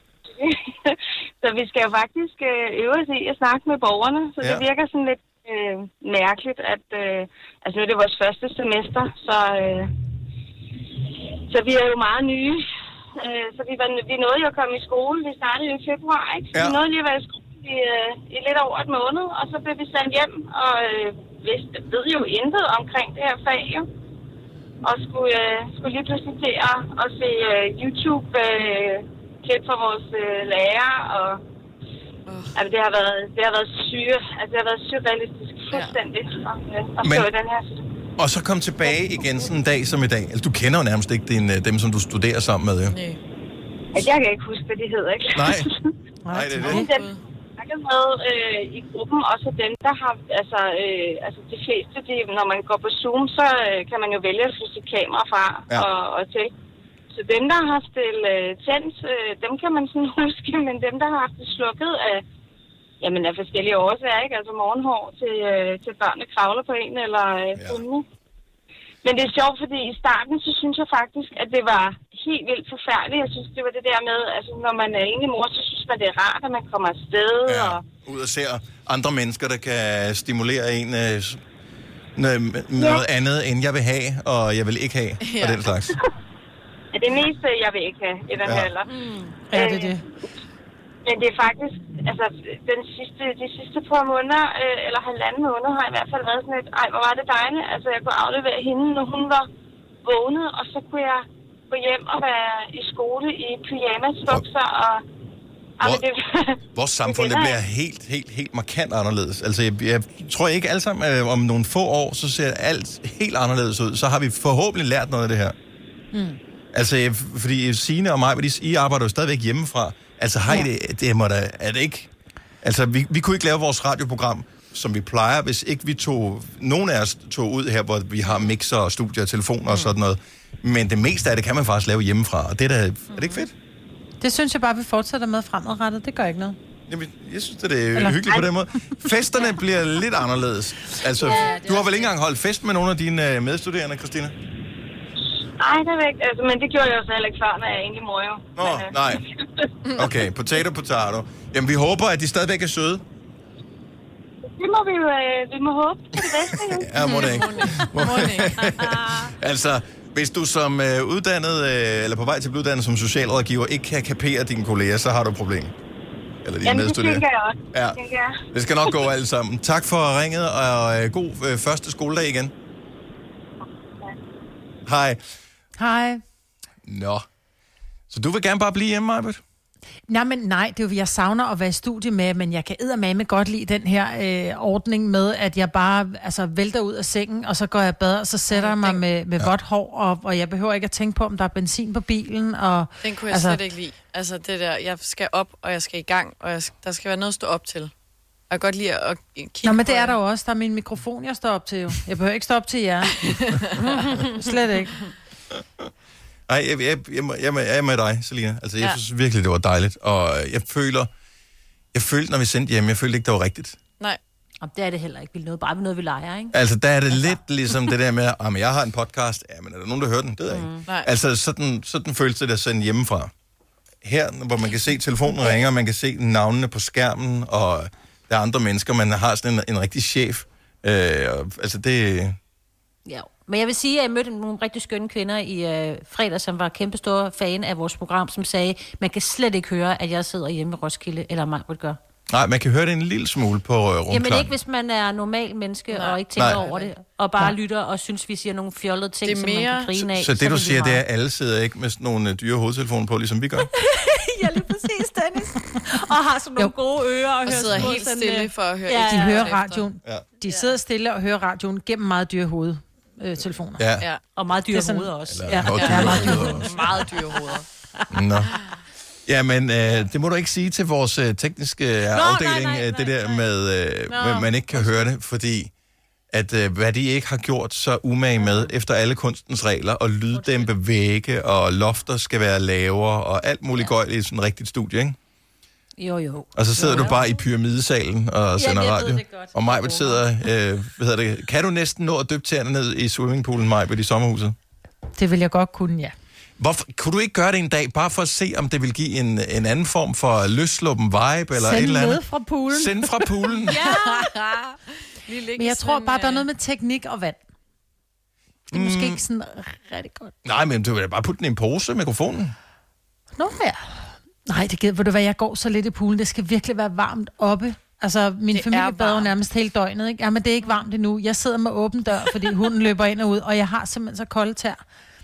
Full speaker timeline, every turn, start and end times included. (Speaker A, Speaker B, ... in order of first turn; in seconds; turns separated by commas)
Speaker A: 0.3-9.9, Speaker B: 4.4-4.7, Speaker A: 11.5-12.6, Speaker A: 13.2-23.9, Speaker B: 16.5-16.8, Speaker A: 24.8-31.4, Speaker C: 32.3-32.6, Speaker A: 32.5-37.9, Speaker C: 35.7-36.0, Speaker B: 37.0-37.3, Speaker B: 38.2-43.0, Speaker C: 42.9-43.2, Speaker A: 43.9-45.9, Speaker B: 45.4-45.7, Speaker D: 46.2-46.9, Speaker B: 46.3-46.9, Speaker A: 46.7-56.5, Speaker C: 46.8-47.2, Speaker A: 57.1-62.2, Speaker A: 63.0-68.0, Speaker B: 67.6-67.8, Speaker A: 69.0-77.8, Speaker B: 77.5-81.4, Speaker B: 82.2-86.0, Speaker C: 85.2-85.8, Speaker A: 86.9-88.9, Speaker B: 88.4-88.7, Speaker E: 88.9-89.4, Speaker D: 89.5-90.0, Speaker A: 89.5-90.0, Speaker A: 91.0-99.5, Speaker A: 100.0-105.0, Speaker A: 105.8-107.6, Speaker B: 106.8-115.6, Speaker D: 116.1-116.4, Speaker B: 116.7-122.1, Speaker B: 122.6-133.5, Speaker D: 134.2-136.6, Speaker B: 136.9-144.3, Speaker D: 138.0-138.5, Speaker E: 141.2-142.1, Speaker A: 145.6-148.9, Speaker B: 148.6-149.2, Speaker C: 149.8-150.2, Speaker B: 150.0-153.0, Speaker A: 154.6-157.4, Speaker B: 156.2-165.7, Speaker C: 157.0-158.7, Speaker B: 166.4-168.0, Speaker A: 166.7-168.4, Speaker B: 168.5-172.5, Speaker B: 174.9-175.2, Speaker D: 175.8-176.2, Speaker B: 176.8-177.2, Speaker B: 178.1-179.4, Speaker D: 180.1-193.6, Speaker C: 188.5-189.0, Speaker C: 193.0-197.9, Speaker C: 198.5-200.2, Speaker D: 199.6-203.2, Speaker C: 203.2-204.2, Speaker D: 204.2-205.0, Speaker B: 206.5-211.1, Speaker B: 211.9-213.8, Speaker E: 214.6-216.6, Speaker B: 216.5-223.3, Speaker E: 217.1-217.4, Speaker E: 220.5-220.9, Speaker B: 224.0-232.4, Speaker E: 233.1-242.0, Speaker B: 242.3-244.6, Speaker E: 244.1-251.0, Speaker C: 245.9-246.9, Speaker B: 246.3-246.6, Speaker C: 249.2-249.9, Speaker B: 250.0-253.7, Speaker E: 253.7-259.6, Speaker C: 257.4-259.8, Speaker D: 259.1-263.9, Speaker E: 260.5-260.8, Speaker B: 263.8-264.1, Speaker E: 264.4-268.0, Speaker D: 264.7-266.5, Speaker B: 265.3-266.8, Speaker C: 266.6-267.7, Speaker B: 268.1-268.6, Speaker B: 269.3-275.7, Speaker E: 272.1-273.5, Speaker E: 274.1-275.1, Speaker B: 276.3-285.2, Speaker E: 280.3-280.7, Speaker E: 286.0-287.4, Speaker B: 286.6-294.6, Speaker E: 288.6-290.2, Speaker D: 295.2-296.1, Speaker B: 296.6-303.8, Speaker D: 301.5-303.5, Speaker E: 303.7-304.3, Speaker C: 303.7-306.5, Speaker D: 305.6-307.4, Speaker D: 308.7-310.3, Speaker B: 308.7-309.2, Speaker B: 310.4-312.6, Speaker D: 313.4-324.8, Speaker C: 318.5-319.4